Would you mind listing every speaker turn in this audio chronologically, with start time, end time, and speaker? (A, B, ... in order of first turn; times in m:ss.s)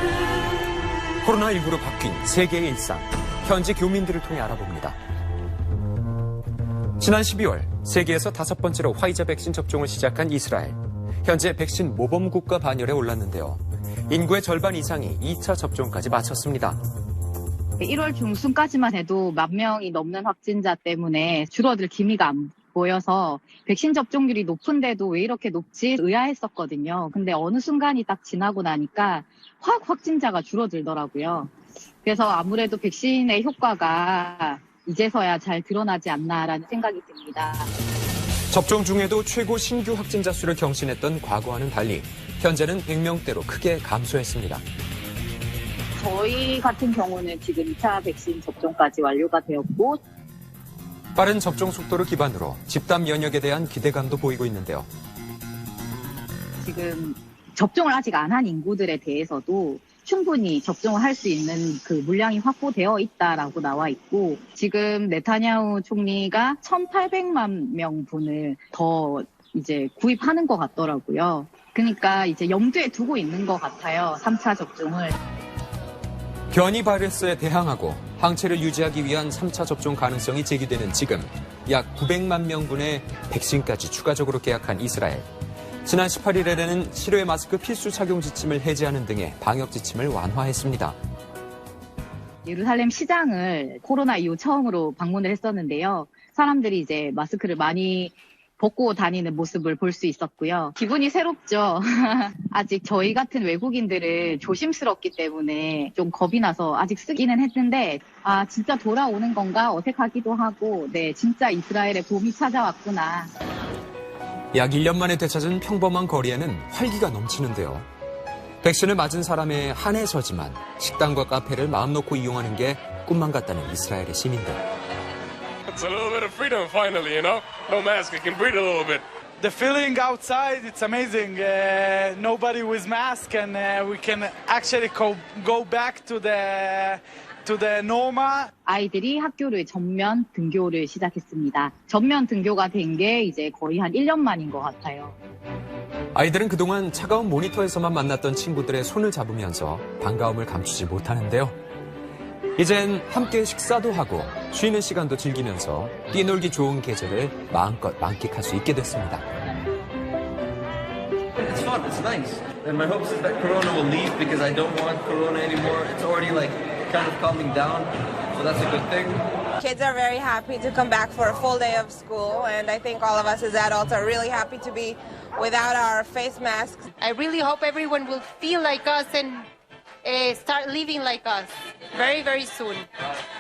0:01.2-0:05.0 A
0:07.0-0:16.8 A
0:17.8-0:31.5 B
0:32.0-0:37.7 B
0:38.5-0:44.6 A
0:46.0-0:50.0 B
0:51.2-0:54.9 A
0:56.6-1:15.2 B
1:16.5-1:25.3 A
1:25.8-1:31.0 A
1:32.4-1:53.3 B
1:54.5-1:57.9 A
1:58.6-2:04.6 A
2:05.7-2:09.0 C
2:09.4-2:18.5 D
2:18.6-2:25.2 B
2:26.1-2:31.6 A
2:32.6-2:39.3 A
2:41.4-2:49.3 E
2:49.6-2:56.8 F
2:57.0-2:59.5 G
3:00.0-3:02.9 G